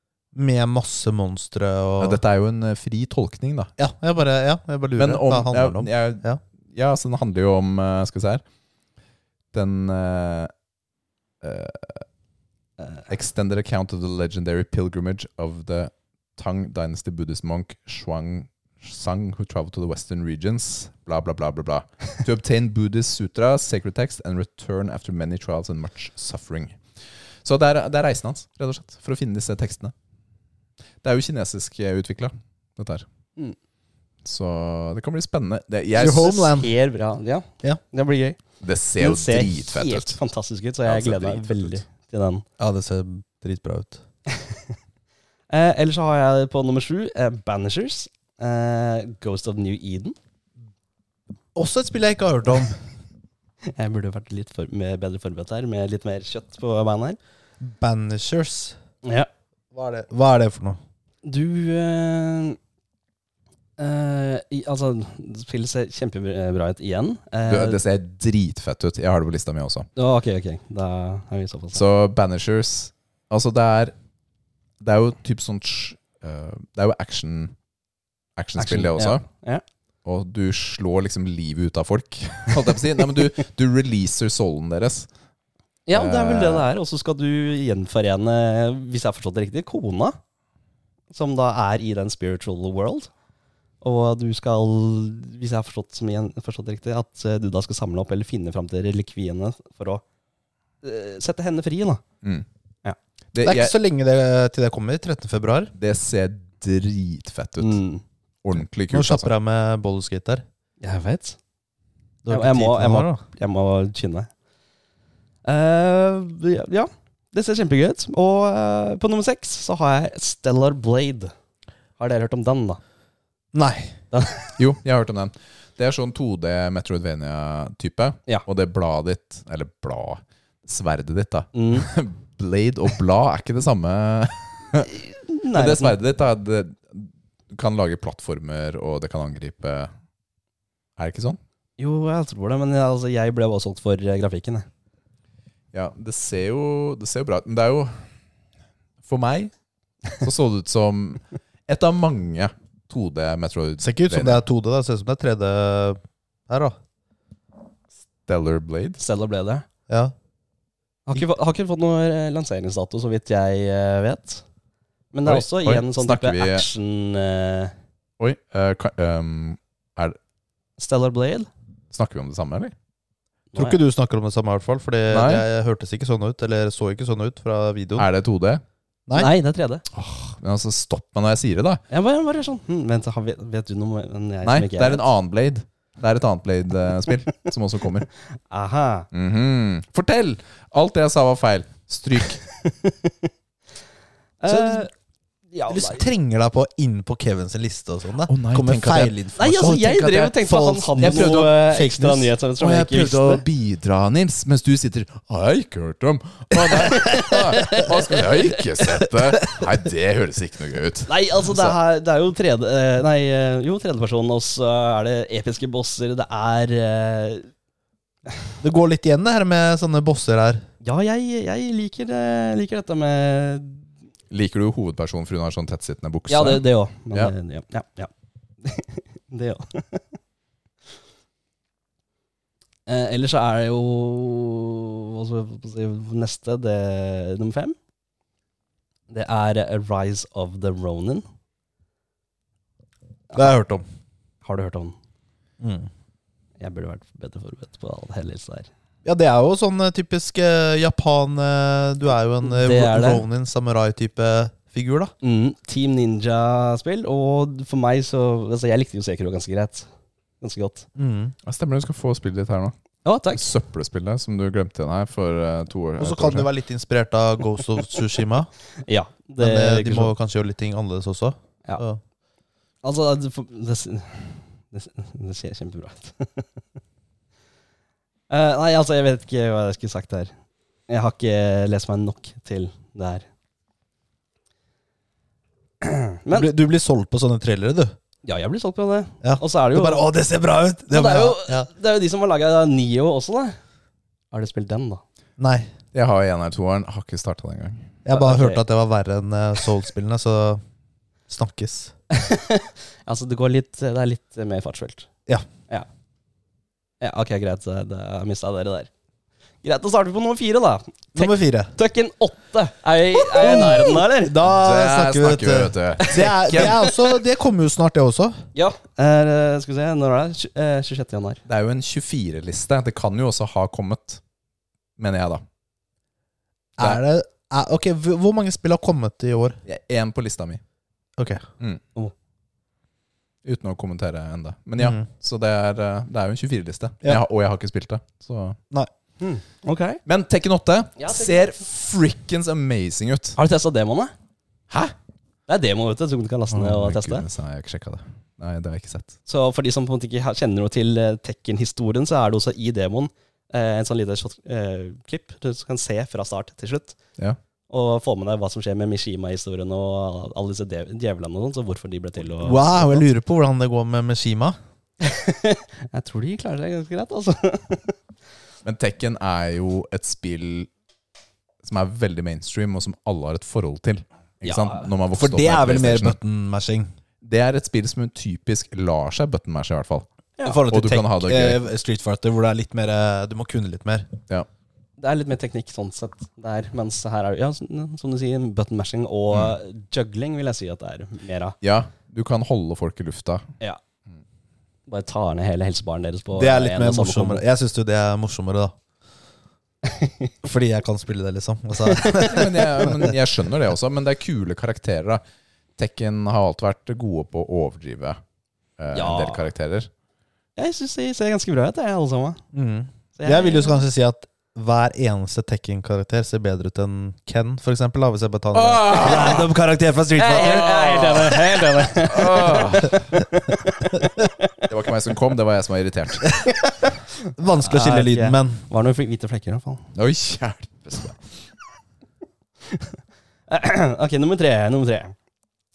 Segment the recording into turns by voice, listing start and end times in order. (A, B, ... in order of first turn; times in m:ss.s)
0:00.3-0:02.2 A
0:02.0-0:03.7 B
0:03.8-0:06.4 A
0:05.0-0:08.4 B
0:09.5-0:10.5 B
0:11.4-0:12.0 B
0:13.1-0:26.8 B
0:27.4-0:29.9 B
0:31.0-0:33.0 B
0:34.2-0:36.5 B
0:36.0-0:36.7 A
0:36.4-0:38.4 C
0:38.6-0:40.2 B
0:39.0-0:42.4 C
0:40.8-0:41.8 B
0:42.6-0:44.0 A
0:45.5-0:50.2 C
0:51.6-0:52.8 A
0:53.7-0:57.2 C
0:57.6-0:58.8 A
0:59.0-0:59.3 C
0:59.7-1:00.8 A
1:01.2-1:02.6 C
1:03.8-1:07.8 C
1:07.5-1:09.9 B
1:10.0-1:11.8 C
1:11.7-1:13.9 B
1:14.8-1:17.5 B
1:18.4-1:19.2 B
1:18.6-1:19.6 C
1:20.0-1:25.1 B
1:25.9-1:30.2 C
1:25.9-1:26.7 B
1:31.1-1:33.1 C
1:33.8-1:40.0 C
1:40.8-1:42.0 C
1:43.3-1:43.7 B
1:43.4-1:45.7 A
1:45.8-1:47.8 B
1:47.6-1:48.0 C
1:48.4-1:49.3 B
1:48.9-1:50.4 A
1:50.8-1:51.4 C
1:52.2-1:53.2 A
1:52.3-1:54.3 C
1:55.4-2:01.3 C
2:02.0-2:02.8 C
2:03.5-2:04.0 A
2:04.1-2:04.5 C
2:04.6-2:15.0 B
2:11.5-2:11.9 C
2:15.3-2:16.0 C
2:15.5-2:19.9 B
2:21.0-2:21.4 B
2:21.8-2:24.7 C
2:25.7-2:28.0 B
2:29.0-2:29.5 B
2:30.1-2:34.4 B
2:33.8-2:36.8 A
2:38.3-2:39.0 B
2:39.0-2:39.6 C
2:39.9-2:40.1 A
2:41.1-2:44.4 C
2:45.1-2:47.8 C
2:45.2-2:46.7 B
2:48.2-2:50.2 B
2:50.8-2:51.5 C
2:51.9-2:52.7 B
2:53.5-2:53.8 C
2:53.6-2:58.1 A
2:55.1-2:55.4 B
2:58.0-2:58.6 B
2:59.1-2:59.3 A
2:59.1-2:59.8 C
2:59.9-3:01.8 B
3:01.9-3:05.0 C
3:04.4-3:08.1 B
3:08.3-3:09.1 C
3:09.1-3:12.4 B
3:12.4-3:13.3 C
3:14.4-3:14.9 C
3:14.5-3:14.9 A
3:15.5-3:16.1 C
3:15.7-3:19.8 A
3:18.3-3:20.4 B
3:19.4-3:23.4 C
3:20.3-3:22.3 A
3:21.0-3:21.5 B
3:22.6-3:31.8 B
3:26.7-3:28.4 C
3:31.1-3:37.5 C
3:38.6-3:40.6 A
3:40.8-3:43.9 C
3:44.3-3:47.3 B
3:46.3-3:48.1 C
3:48.6-3:50.1 C
3:52.9-3:57.8 C
3:59.1-4:01.2 C
4:03.3-4:03.8 A
4:04.4-4:05.0 C
4:05.6-4:05.9 A
4:06.6-4:08.7 C
4:09.0-4:15.1 A
4:12.4-4:13.2 C
4:15.2-4:19.9 C
4:20.4-4:20.9 C
4:21.0-4:21.4 A
4:21.4-4:22.7 B
4:23.0-4:23.5 C
4:23.3-4:26.5 B
4:26.0-4:28.5 A
4:28.8-4:30.1 C
4:29.4-4:32.0 A
4:32.8-4:36.5 C
4:38.3-4:40.3 C
4:40.9-4:43.3 C
4:45.8-4:46.5 C
4:46.3-4:47.9 A
4:48.2-4:50.1 C
4:49.2-4:51.7 A
4:50.9-4:53.6 C
4:54.3-4:55.0 C
4:55.4-4:55.7 A
4:55.9-4:57.9 B
4:58.0-5:00.6 A
4:58.1-4:58.6 C
5:01.3-5:01.9 A
5:02.1-5:05.1 C
5:07.0-5:08.9 C
5:09.6-5:14.4 C
5:11.2-5:11.7 A
5:13.1-5:18.4 A
5:14.5-5:16.8 B
5:16.0-5:16.9 C
5:18.6-5:21.4 C
5:21.5-5:24.2 B
5:25.0-5:25.4 B
5:26.8-5:29.6 A
5:29.7-5:30.6 B
5:31.2-5:31.4 A
5:33.4-5:38.6 B
5:34.8-5:35.1 A
5:39.2-5:40.0 C
5:40.1-5:43.4 B
5:41.0-5:41.6 C
5:43.4-5:44.1 C
5:44.7-5:45.0 B
5:45.5-5:47.2 C
5:46.5-5:49.2 B
5:49.3-5:57.0 C
5:57.7-6:03.0 C
6:02.4-6:04.6 A
6:05.0-6:08.0 C
6:08.6-6:10.7 B
6:11.6-6:16.2 B
6:14.4-6:14.9 C
6:15.2-6:16.9 A
6:17.2-6:20.1 B
6:20.4-6:24.1 A
6:20.7-6:21.6 B
6:25.0-6:31.6 C
6:31.6-6:33.5 B
6:34.9-6:37.4 C
6:36.4-6:38.8 A
6:39.8-6:40.3 C
6:40.4-6:43.2 A
6:41.9-6:42.5 C
6:42.2-6:45.2 B
6:45.8-6:48.2 B
6:48.8-6:49.9 B
6:48.9-6:49.4 C
6:50.6-6:52.4 C
6:52.5-7:01.1 A
6:53.2-6:53.8 C
6:58.5-6:59.5 B
6:59.0-6:59.4 C
7:00.2-7:04.5 C
7:00.4-7:03.2 B
7:04.6-7:06.4 B
7:07.4-7:08.6 A
7:07.6-7:09.9 C
7:10.0-7:11.2 B
7:12.7-7:13.0 C
7:13.5-7:15.2 C